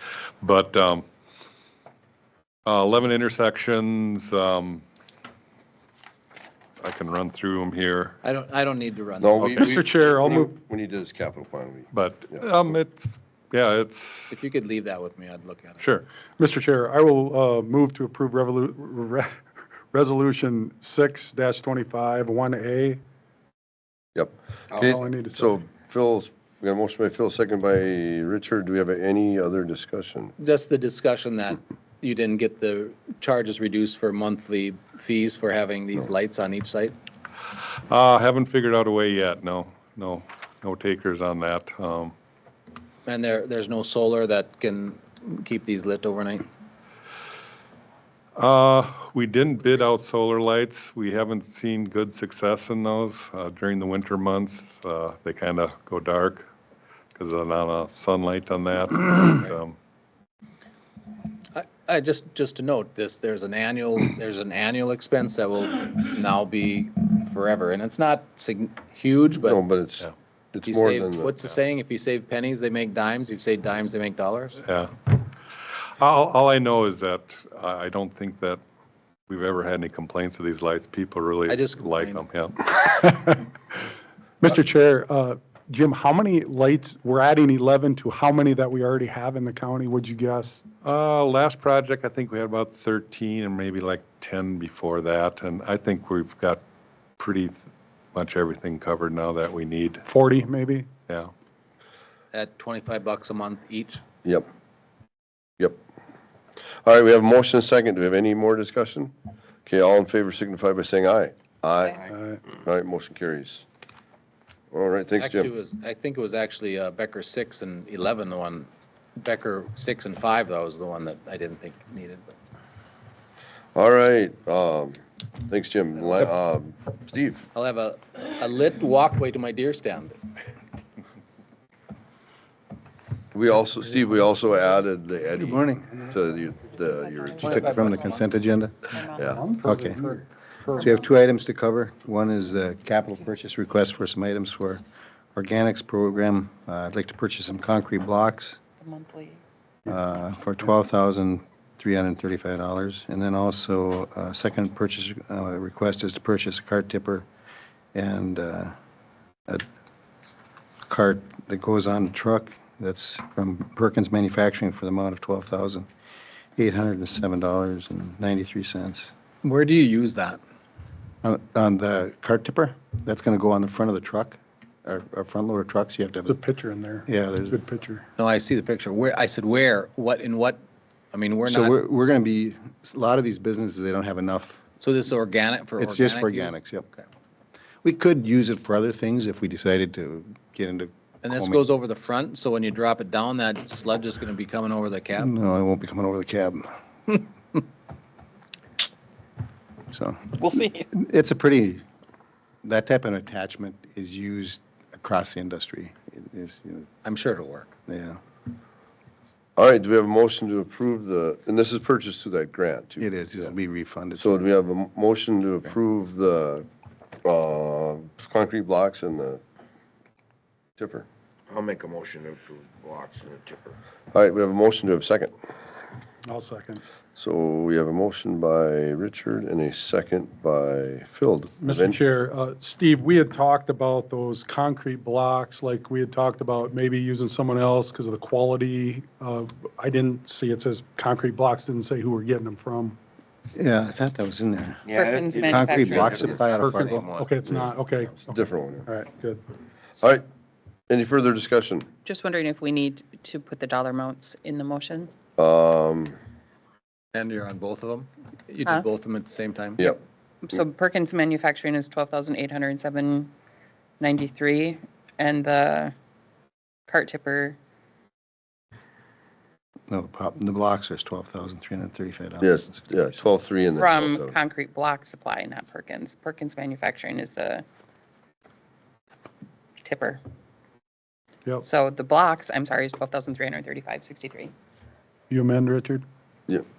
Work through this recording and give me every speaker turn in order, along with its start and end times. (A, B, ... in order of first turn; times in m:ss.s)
0:00.4-0:01.0 A
0:02.7-0:04.8 A
0:06.8-0:08.2 A
0:08.2-0:09.6 B
0:09.2-0:12.7 C
0:09.5-0:10.5 D
0:11.9-0:14.4 A
0:14.3-0:15.9 B
0:16.4-0:19.3 D
0:19.9-0:23.0 D
0:24.2-0:30.3 C
0:24.8-0:25.6 D
0:30.4-0:37.0 B
0:37.9-0:42.2 A
0:43.1-0:46.5 B
0:48.4-0:56.5 A
0:57.2-0:59.8 A
1:01.5-1:09.6 B
1:09.4-1:11.4 C
1:10.7-1:14.6 B
1:14.6-1:15.1 A
1:16.0-1:18.6 A
1:19.3-1:22.7 A
1:21.5-1:22.2 B
1:23.0-1:23.4 D
1:24.4-1:30.6 D
1:30.8-1:36.6 A
1:37.2-1:40.1 A
1:40.1-1:40.9 D
1:42.3-1:44.0 B
1:46.8-1:49.1 C
1:49.7-1:52.0 C
1:52.1-1:52.4 D
1:52.5-1:53.6 C
1:54.7-1:55.5 C
1:55.2-2:02.3 B
2:03.8-2:07.5 C
2:07.5-2:10.2 B
2:13.3-2:17.7 C
2:13.9-2:14.5 D
2:15.4-2:15.9 E
2:15.6-2:16.7 D
2:17.2-2:18.3 F
2:17.4-2:18.9 E
2:17.4-2:17.9 B
2:18.9-2:19.4 F
2:19.2-2:19.4 C
2:19.3-2:20.1 D
2:19.6-2:20.0 E
2:19.7-2:21.0 B
2:20.8-2:24.8 E
2:25.4-2:28.6 E
2:28.8-2:29.4 F
2:29.9-2:37.2 E
2:38.0-2:38.7 E
2:40.9-2:45.9 E
2:46.6-2:49.1 E
2:49.4-2:50.4 B
2:51.2-2:56.4 E
2:56.3-2:58.0 D
2:57.1-2:57.6 E
2:58.2-3:00.6 B
3:01.1-3:01.8 B
3:01.4-3:04.6 E
3:04.8-3:07.0 B
3:05.8-3:06.9 E
3:07.8-3:11.6 E
3:11.2-3:15.3 B
3:15.2-3:17.2 E
3:19.9-3:21.8 E
3:20.4-3:20.9 F
3:22.6-3:26.9 E
3:27.0-3:27.7 B
3:27.9-3:28.2 E
3:29.6-3:33.0 C
3:32.9-3:34.5 E
3:34.2-3:36.7 C
3:37.2-3:39.4 C
3:40.8-3:41.1 C
3:41.5-3:43.8 G
3:44.1-3:45.3 C
3:46.3-3:46.8 D
3:47.2-3:52.0 C
3:51.6-4:03.0 D
4:03.5-4:07.1 E
4:04.9-4:07.2 G
4:04.9-4:06.7 F
4:06.6-4:09.4 D
4:08.2-4:08.9 C
4:10.0-4:10.2 C
4:10.9-4:11.9 C
4:12.0-4:15.1 F
4:15.4-4:16.2 C
4:17.1-4:20.0 B
4:20.4-4:23.3 F
4:24.0-4:25.9 F
4:26.9-4:27.6 F
4:29.9-4:32.9 E
4:32.4-4:34.4 C
4:33.8-4:37.6 F
4:39.8-4:40.2 F
4:41.6-4:44.5 F
4:45.3-4:46.0 D